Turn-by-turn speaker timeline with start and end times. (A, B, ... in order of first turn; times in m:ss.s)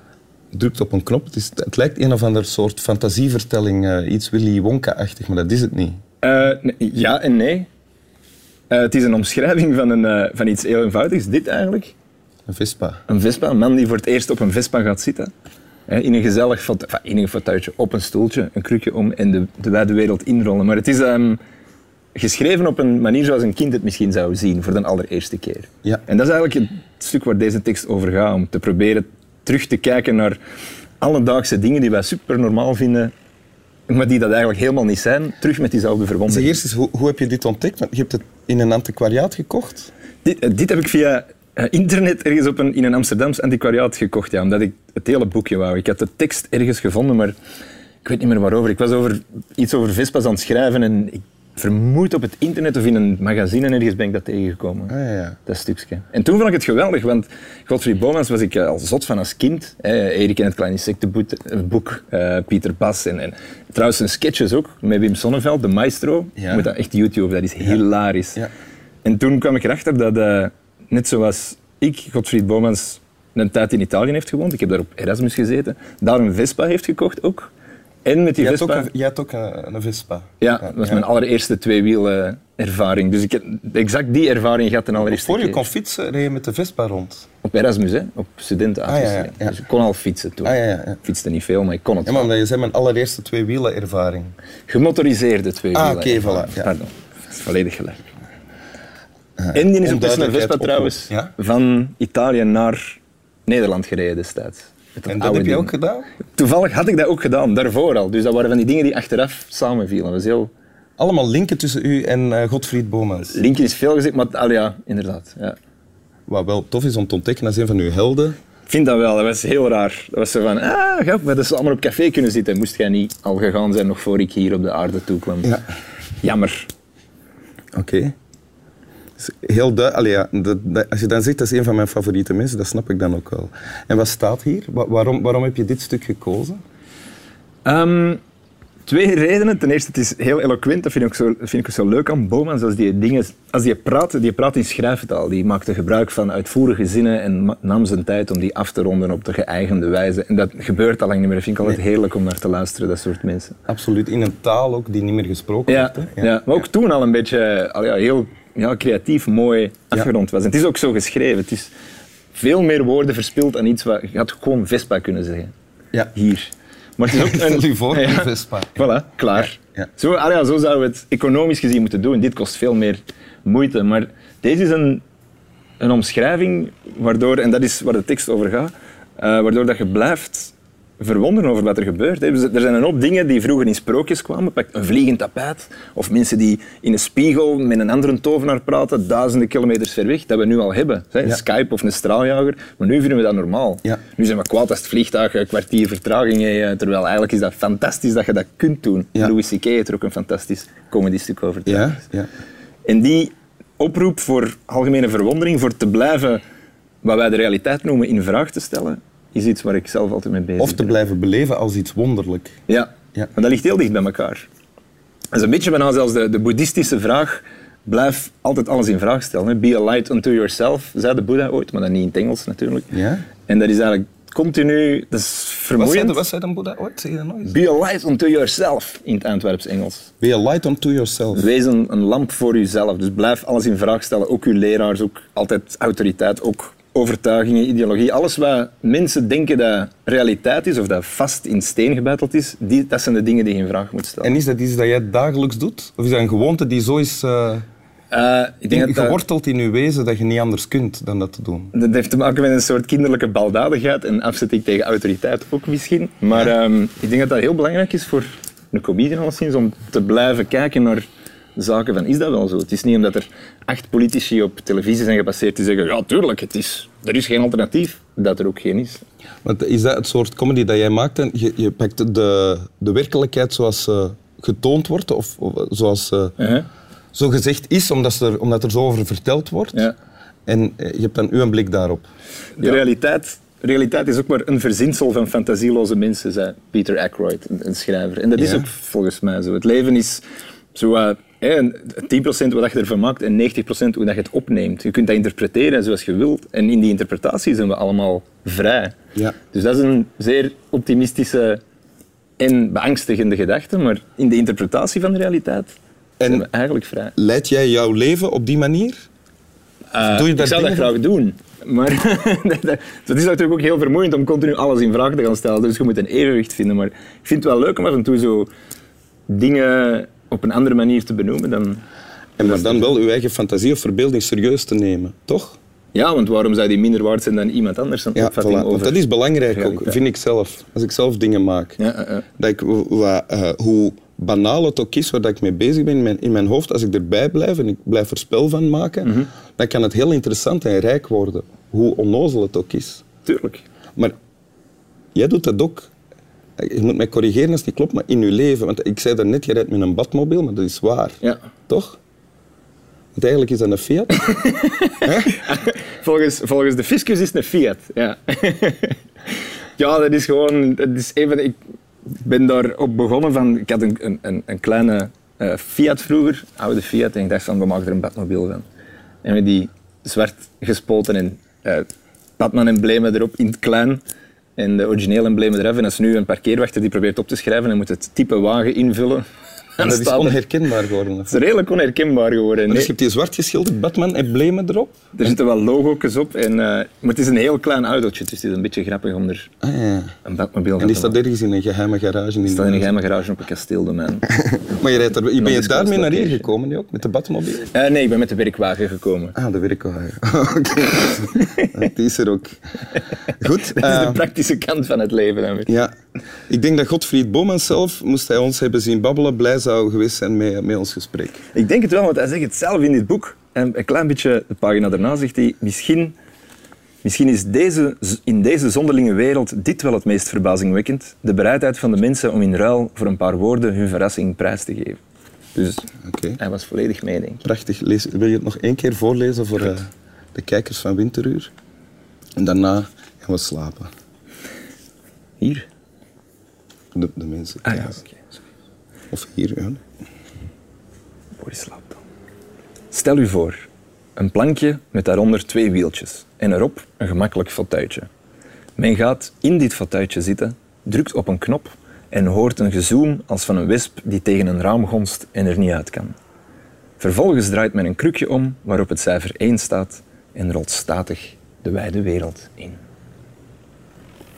0:00.5-0:06.0 A
0:06.2-0:07.7 B
0:08.7-0:12.0 B
0:12.5-0:13.0 A
0:13.1-0:15.3 B
0:15.9-0:21.4 B
0:22.2-0:30.4 B
0:31.0-0:33.1 B
0:33.9-0:36.6 B
0:36.3-0:39.9 A
0:40.2-0:47.4 B
0:48.0-0:55.0 B
0:54.9-0:55.4 A
0:55.5-1:08.4 B
1:06.4-1:06.7 A
1:09.0-1:17.5 B
1:18.0-1:18.9 B
1:18.4-1:21.0 A
1:20.4-1:25.7 B
1:25.0-1:27.3 A
1:27.4-1:32.3 B
1:28.9-1:29.6 A
1:30.4-1:31.0 A
1:32.1-1:34.3 A
1:34.7-1:38.1 B
1:35.7-1:36.7 A
1:39.4-1:41.3 A
1:39.5-1:45.7 B
1:45.1-1:46.1 A
1:46.3-1:50.5 B
1:51.0-1:53.4 A
1:53.3-1:55.6 B
1:56.3-1:58.4 A
1:58.7-2:05.6 B
2:06.2-2:06.7 B
2:07.7-2:08.1 A
2:09.2-2:16.6 A
2:17.6-2:18.2 B
2:18.9-2:33.6 B
2:33.7-2:36.4 A
2:35.7-2:41.7 B
2:42.3-2:45.5 B
2:46.1-2:55.0 B
2:47.1-2:49.5 A
2:55.8-3:22.0 B
3:21.7-3:22.3 A
3:22.9-3:26.4 B
3:27.0-3:31.0 B
3:30.6-3:32.6 A
3:32.7-3:34.5 B
3:35.3-3:42.9 B
3:42.9-3:43.3 A
3:43.5-3:46.2 B
3:45.8-3:47.6 A
3:47.4-3:50.1 B
3:50.2-3:51.5 A
3:51.3-4:04.4 B
4:04.2-4:07.6 A
4:08.1-4:09.2 B
4:08.7-4:11.7 A
4:11.7-4:21.0 B
4:21.6-4:29.0 B
4:29.4-4:36.4 A
4:36.4-4:36.7 B
4:37.1-4:39.9 A
4:40.5-4:42.1 A
4:42.6-4:50.2 B
4:48.4-4:48.7 A
4:50.8-4:58.9 B
4:59.5-5:01.6 B
5:02.4-5:05.8 B
5:06.2-5:06.5 A
5:06.3-5:07.1 B
5:07.2-5:09.1 A
5:09.9-5:18.5 B
5:10.0-5:11.0 A
5:19.3-5:21.8 B
5:22.4-5:25.6 A
5:22.4-5:22.9 B
5:25.9-5:30.0 B
5:28.2-5:31.8 A
5:31.8-5:32.2 B
5:32.4-5:43.0 A
5:43.3-5:43.6 B
5:45.2-5:45.9 A
5:46.6-5:52.0 A
5:53.2-5:54.3 A
5:54.2-5:59.0 B
5:55.0-5:55.4 A
5:59.8-6:08.6 B
6:09.2-6:14.0 B
6:14.6-6:19.2 B
6:19.8-6:20.4 B
6:19.8-6:21.4 A
6:21.3-6:22.9 B
6:22.7-6:25.4 A
6:25.1-6:29.5 B
6:29.6-6:30.1 A
6:30.2-6:31.2 B
6:30.8-6:33.0 A
6:32.4-6:34.3 B
6:34.3-6:37.7 A
6:35.4-6:36.4 B
6:37.7-6:39.4 B
6:39.4-6:42.6 A
6:41.2-6:41.7 B
6:43.4-6:44.2 A
6:43.5-6:45.7 B
6:46.5-6:51.4 A
6:51.5-6:56.2 B
6:57.0-7:05.0 B
7:05.6-7:05.9 B
7:06.0-7:06.4 A
7:06.4-7:07.4 B
7:07.4-7:11.5 A
7:12.4-7:13.9 A
7:15.4-7:15.7 B
7:16.9-7:18.0 A
7:17.7-7:18.2 B
7:19.1-7:19.8 A
7:21.4-7:22.0 B
7:22.9-7:23.7 B
7:24.2-7:28.1 B
7:28.8-7:36.2 B
7:37.0-7:42.8 B